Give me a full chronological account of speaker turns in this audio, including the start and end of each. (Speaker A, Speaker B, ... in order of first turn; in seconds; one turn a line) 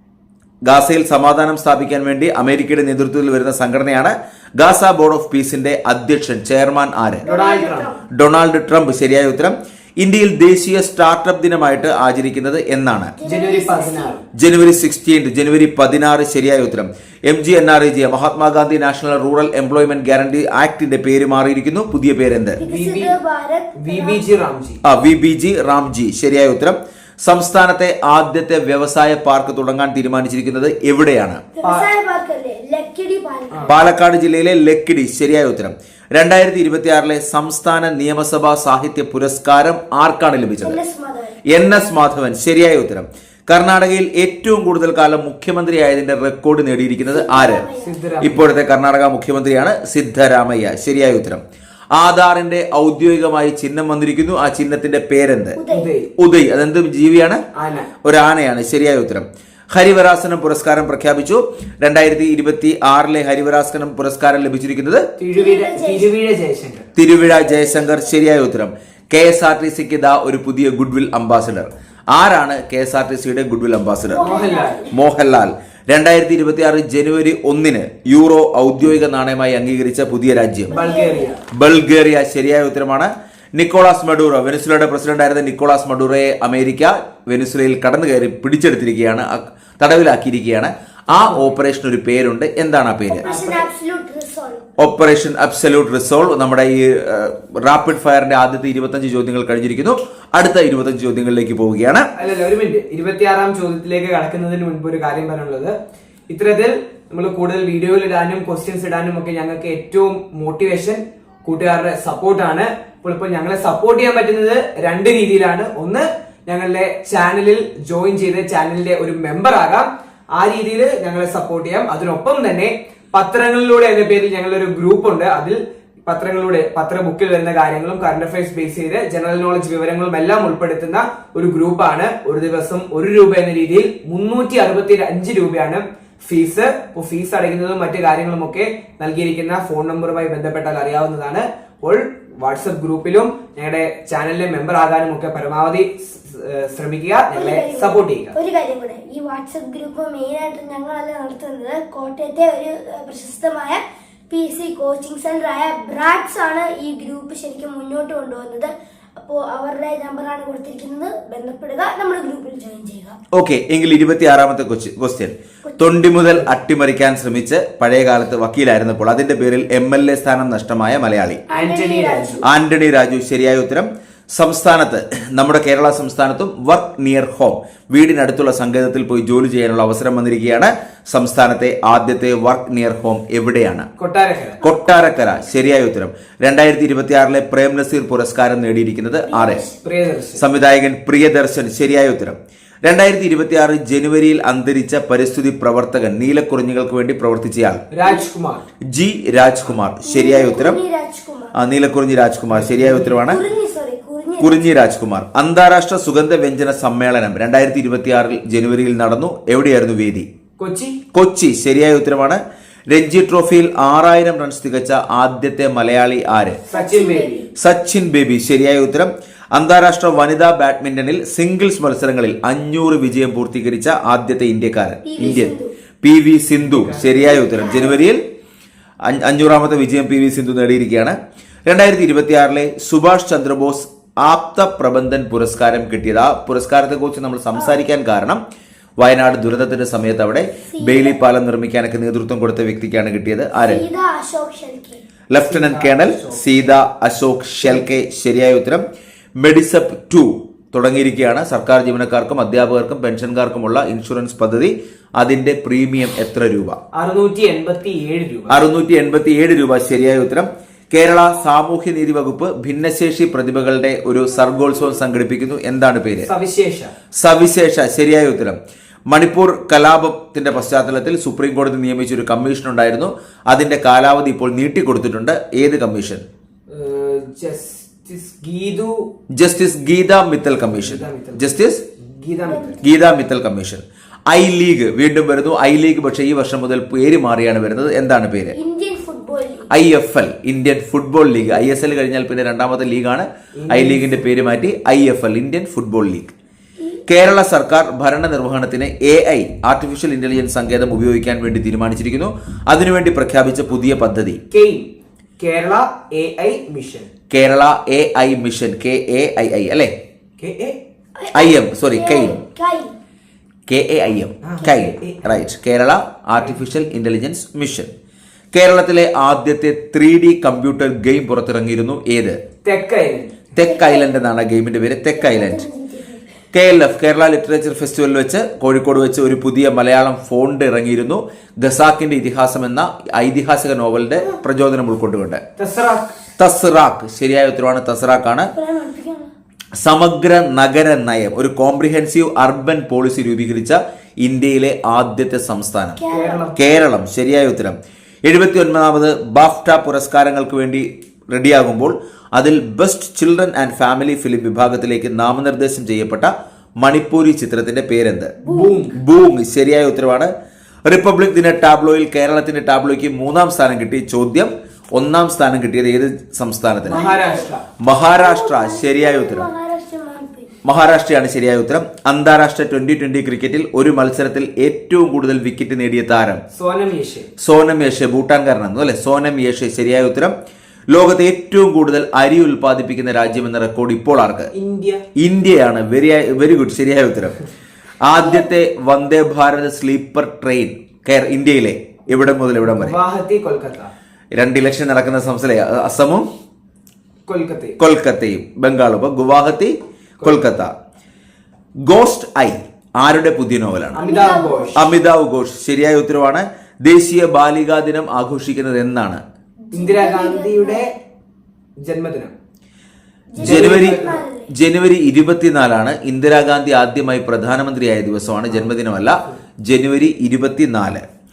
Speaker A: 0.7-7.2
Speaker B: 7.2-8.0
Speaker C: 7.2-7.9
Speaker A: 8.1-13.1
Speaker B: 13.2-14.2
Speaker C: 13.2-14.2
Speaker A: 14.3-22.6
Speaker B: 22.6-24.2
Speaker C: 22.6-23.1
Speaker C: 23.8-24.8
Speaker A: 24.8-31.4
Speaker B: 31.5-33.9
Speaker C: 31.6-31.9
Speaker A: 33.7-40.8
Speaker B: 40.6-41.4
Speaker A: 41.4-47.7
Speaker B: 47.1-48.0
Speaker C: 47.8-48.4
Speaker A: 48.2-51.4
Speaker A: 51.9-55.6
Speaker B: 55.5-55.9
Speaker C: 55.7-56.1
Speaker A: 56.2-57.4
Speaker C: 57.5-57.9
Speaker A: 58.0-65.0
Speaker C: 65.2-66.9
Speaker B: 65.3-66.1
Speaker A: 67.0-74.2
Speaker B: 67.2-68.2
Speaker B: 74.1-75.0
Speaker C: 74.2-74.9
Speaker A: 74.9-80.7
Speaker B: 80.7-81.3
Speaker C: 80.7-81.4
Speaker A: 81.5-93.3
Speaker C: 91.1-91.6
Speaker B: 93.1-94.6
Speaker C: 93.2-93.6
Speaker A: 94.8-102.1
Speaker C: 102.2-105.7
Speaker C: 106.3-148.3
Speaker B: 147.3-163.2
Speaker A: 163.3-171.4
Speaker B: 165.7-166.0
Speaker B: 171.5-172.5
Speaker C: 171.5-172.4
Speaker A: 172.4-183.9
Speaker C: 184.0-184.6
Speaker A: 184.6-189.6
Speaker B: 184.8-185.3
Speaker B: 189.2-189.8
Speaker C: 189.8-190.4
Speaker A: 190.3-197.8
Speaker C: 197.9-198.6
Speaker A: 198.9-200.8
Speaker B: 200.0-201.5
Speaker A: 201.5-203.4
Speaker C: 202.5-203.2
Speaker B: 203.2-204.6
Speaker A: 204.4-210.3
Speaker C: 210.6-211.0
Speaker A: 211.1-216.6
Speaker B: 216.7-217.5
Speaker C: 216.7-217.4
Speaker A: 217.6-228.2
Speaker B: 225.0-225.7
Speaker C: 226.6-227.7
Speaker B: 227.5-228.0
Speaker A: 229.1-238.4
Speaker B: 237.5-237.8
Speaker A: 239.0-243.8
Speaker B: 240.6-241.2
Speaker B: 243.5-245.0
Speaker A: 245.3-248.8
Speaker C: 245.5-246.8
Speaker A: 249.4-256.8
Speaker C: 256.9-258.6
Speaker A: 258.5-266.3
Speaker C: 266.2-266.9
Speaker A: 267.2-276.2
Speaker C: 276.7-279.1
Speaker A: 279.3-281.8
Speaker C: 280.6-281.5
Speaker C: 282.0-282.8
Speaker B: 282.4-282.9
Speaker A: 282.8-288.6
Speaker B: 288.5-289.7
Speaker A: 289.7-296.3
Speaker C: 293.6-294.3
Speaker A: 297.1-304.4
Speaker C: 304.5-307.1
Speaker A: 307.3-309.9
Speaker C: 310.4-310.8
Speaker B: 311.1-312.9
Speaker A: 311.3-312.4
Speaker A: 313.7-317.9
Speaker C: 314.4-315.4
Speaker A: 318.5-322.4
Speaker C: 322.6-323.4
Speaker A: 323.6-325.6
Speaker B: 323.6-324.3
Speaker B: 325.1-326.2
Speaker A: 326.5-335.4
Speaker C: 335.6-336.1
Speaker A: 336.4-338.5
Speaker B: 338.5-339.3
Speaker A: 339.8-346.0
Speaker B: 346.0-346.4
Speaker C: 346.1-346.6
Speaker A: 346.6-358.4
Speaker B: 358.4-358.9
Speaker C: 358.5-359.0
Speaker A: 358.9-360.3
Speaker A: 360.9-367.0
Speaker C: 366.9-367.6
Speaker B: 366.9-367.5
Speaker A: 367.8-369.5
Speaker B: 368.1-370.6
Speaker A: 370.6-376.4
Speaker C: 376.5-377.3
Speaker A: 377.4-380.3
Speaker A: 380.9-384.5
Speaker C: 384.5-385.0
Speaker A: 385.2-387.4
Speaker A: 388.0-392.9
Speaker B: 388.1-388.5
Speaker C: 392.6-393.9
Speaker A: 394.3-396.2
Speaker C: 397.3-397.8
Speaker A: 397.8-400.7
Speaker C: 400.2-400.5
Speaker A: 401.9-404.0
Speaker C: 403.9-404.9
Speaker B: 404.0-404.9
Speaker A: 404.7-409.2
Speaker B: 409.7-410.8
Speaker C: 409.7-410.9
Speaker C: 411.8-412.3
Speaker B: 413.3-414.5
Speaker C: 413.4-414.2
Speaker A: 413.4-421.0
Speaker C: 418.5-419.3